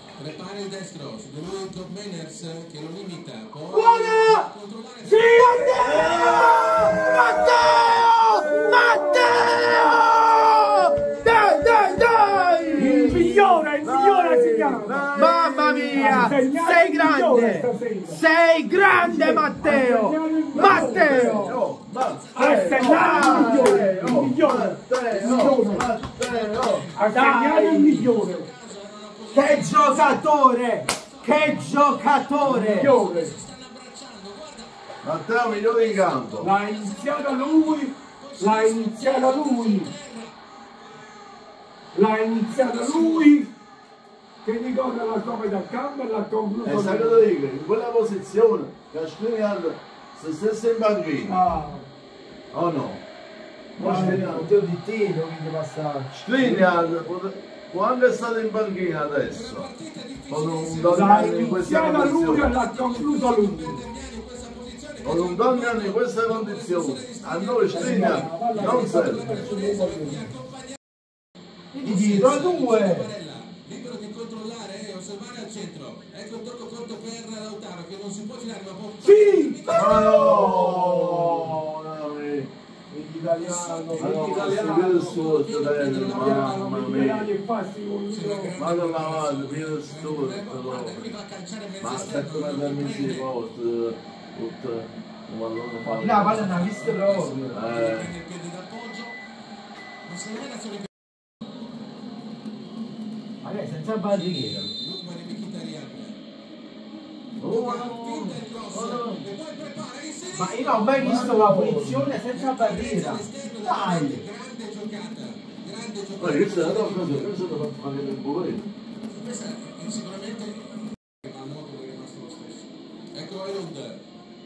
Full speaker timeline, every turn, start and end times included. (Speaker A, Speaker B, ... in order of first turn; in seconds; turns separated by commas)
Speaker A: 0.2-5.5, Speaker B: 3.7-4.5, Speaker C: 5.1-7.5, Speaker B: 5.1-13.3, Speaker C: 8.4-9.3, Speaker D: 11.1-16.4, Speaker C: 12.7-15.1, Speaker B: 15.0-21.6, Speaker C: 15.9-18.2, Speaker C: 18.9-21.6, Speaker D: 20.5-26.9, Speaker A: 21.6-24.2, Speaker C: 22.3-25.9, Speaker B: 22.8-24.0, Speaker A: 25.4-27.1, Speaker C: 26.9-28.5, Speaker B: 27.1-28.1, Speaker A: 27.9-34.7, Speaker B: 29.3-32.9, Speaker C: 32.4-33.4, Speaker D: 35.0-36.5, Speaker A: 35.4-40.4, Speaker C: 36.4-39.9, Speaker C: 41.9-43.5, Speaker A: 42.8-43.2, Speaker C: 44.4-47.3, Speaker D: 46.6-51.4, Speaker C: 51.3-51.9, Speaker D: 52.5-53.0, Speaker D: 53.8-54.5, Speaker C: 53.8-54.2, Speaker B: 53.8-56.7, Speaker D: 56.2-59.7, Speaker A: 59.3-70.8, Speaker D: 60.3-62.5, Speaker C: 60.9-63.9, Speaker D: 65.0-69.5, Speaker C: 67.7-70.3, Speaker B: 71.7-73.1, Speaker A: 71.8-80.2, Speaker C: 79.0-81.6, Speaker D: 79.7-82.5, Speaker C: 82.9-88.6, Speaker A: 83.4-86.6, Speaker D: 83.9-87.3, Speaker A: 88.1-93.3, Speaker D: 88.5-91.1, Speaker D: 91.8-96.6, Speaker B: 95.8-97.5, Speaker A: 96.3-99.2, Speaker D: 97.5-98.1, Speaker A: 100.0-100.9, Speaker B: 103.4-104.7, Speaker D: 104.2-104.7, Speaker A: 104.4-106.2, Speaker D: 107.4-109.3, Speaker A: 107.4-117.3, Speaker B: 110.3-114.2, Speaker D: 111.0-112.0, Speaker C: 111.0-111.5, Speaker D: 116.2-118.7, Speaker A: 119.0-124.0